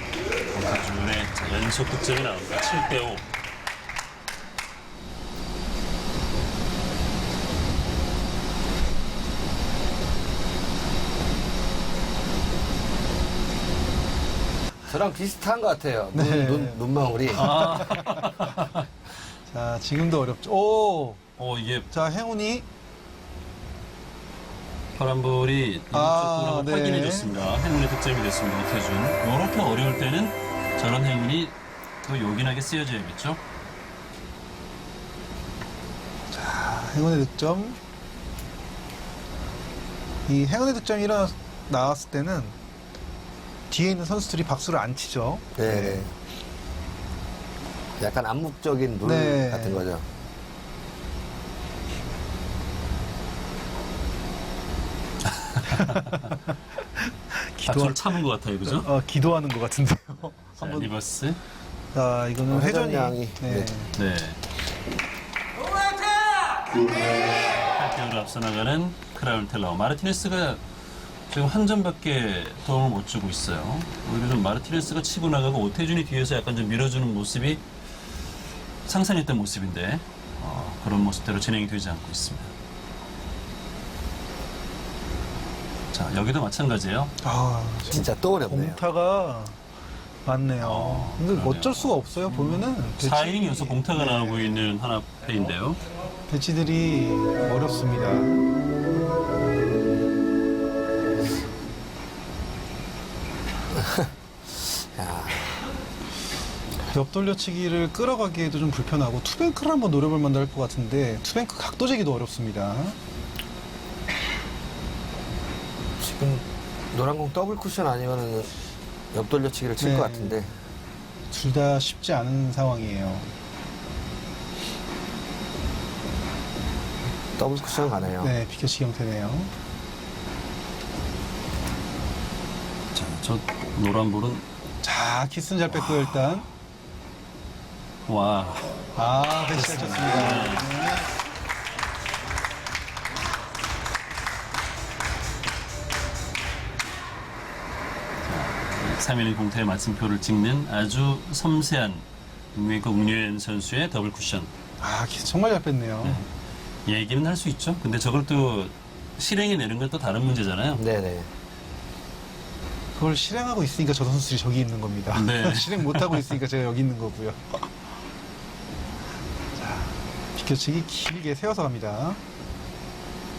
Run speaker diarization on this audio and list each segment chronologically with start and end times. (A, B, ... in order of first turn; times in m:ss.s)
0:00.5-0:03.2 A
0:14.9-0:17.8 B
0:16.1-0:18.5 C
0:17.3-0:18.8 A
0:19.5-0:21.2 C
0:21.4-0:21.9 A
0:21.9-0:22.6 C
0:24.9-0:33.4 A
0:25.9-0:27.3 C
0:36.3-0:37.8 C
0:40.3-0:42.6 C
0:43.7-0:46.1 C
0:45.6-0:46.1 B
0:48.0-0:50.0 B
0:49.0-0:49.8 C
0:55.3-0:55.7 A
0:55.6-0:56.3 C
0:57.0-1:00.9 C
0:57.6-0:58.9 A
1:00.6-1:01.4 A
1:01.9-1:04.0 C
1:02.5-1:03.7 B
1:03.9-1:04.4 A
1:07.7-1:10.6 A
1:11.3-1:17.6 A
1:18.8-1:22.5 A
1:25.9-1:27.1 A
1:27.2-1:29.6 C
1:27.9-1:28.8 B
1:30.2-1:34.7 C
1:30.6-1:35.8 A
1:36.3-1:38.5 C
1:43.7-1:44.1 B
1:44.6-1:45.5 B
1:46.8-1:53.0 C
1:56.0-1:58.5 B
1:59.1-2:00.5 B
1:59.8-2:00.5 C
2:01.3-2:03.3 C
2:07.4-2:08.4 B
2:08.1-2:09.5 C
2:12.9-2:14.4 A
2:14.8-2:16.5 C
2:15.8-2:16.3 A
2:18.0-2:18.9 A
2:18.9-2:21.1 C
2:19.4-2:20.7 A
2:28.2-2:34.5 A
2:34.8-2:36.2 C
2:36.0-2:36.3 A
2:36.8-2:40.8 A
2:40.8-2:41.3 B
2:43.0-2:47.7 C
2:45.1-2:46.4 A
2:49.6-2:52.2 C